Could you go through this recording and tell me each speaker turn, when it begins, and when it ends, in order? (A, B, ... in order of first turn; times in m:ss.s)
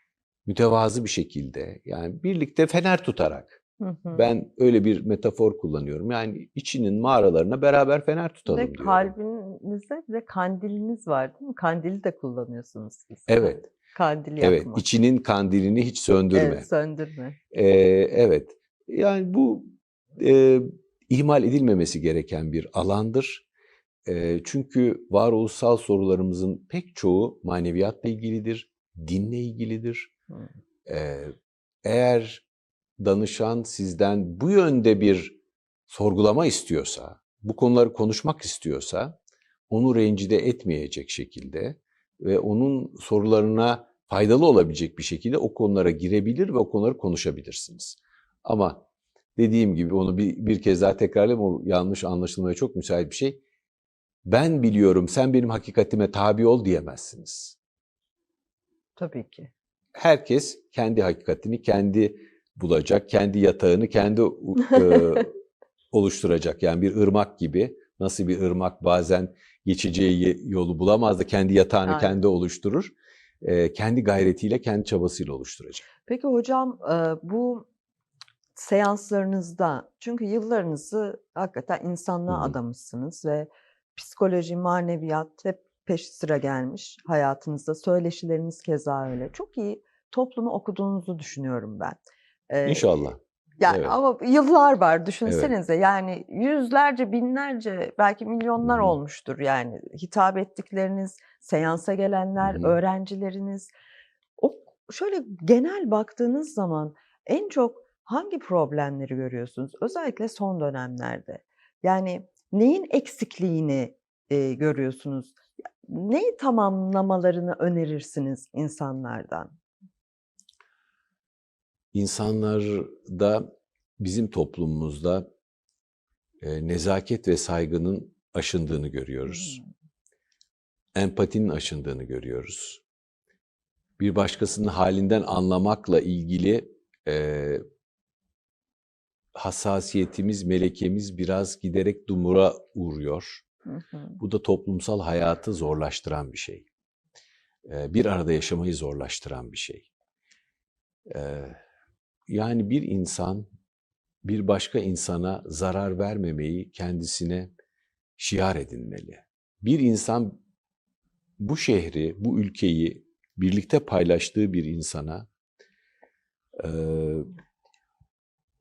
0:00.4-0:03.6 A
0:03.8-0:04.2 B
0:04.1-0:09.1 A
0:08.5-0:14.8 B
0:13.3-0:13.7 A
0:14.4-0:16.7 A
0:16.3-0:17.4 B
0:17.5-0:23.4 A
0:24.0-0:30.1 A
0:30.9-0:31.3 A
0:31.8-0:32.4 A
0:33.0-0:35.4 A
0:35.9-0:39.2 A
0:39.7-0:48.8 A
0:49.4-0:53.4 A
0:54.2-0:57.6 A
0:59.0-0:59.5 B
0:59.9-1:05.3 A
1:05.9-1:15.8 A
1:11.8-1:12.2 B
1:16.0-1:17.6 B
1:18.6-1:32.9 B
1:22.3-1:22.5 A
1:32.6-1:34.0 A
1:33.6-1:43.7 B
1:35.2-1:35.5 A
1:38.6-1:38.9 A
1:42.4-1:42.8 A
1:44.4-1:59.5 B
2:01.9-2:05.3 A
2:06.4-2:09.6 A
2:09.3-2:09.7 B
2:10.9-2:12.8 A
2:14.0-2:17.6 A
2:19.3-2:23.4 A
2:23.7-2:24.2 B
2:24.2-2:26.7 A
2:27.6-2:29.9 A
2:31.1-2:31.6 A
2:32.3-2:33.5 A
2:34.2-2:37.5 A
2:38.2-2:40.4 A
2:41.4-2:45.3 A
2:46.6-2:47.3 A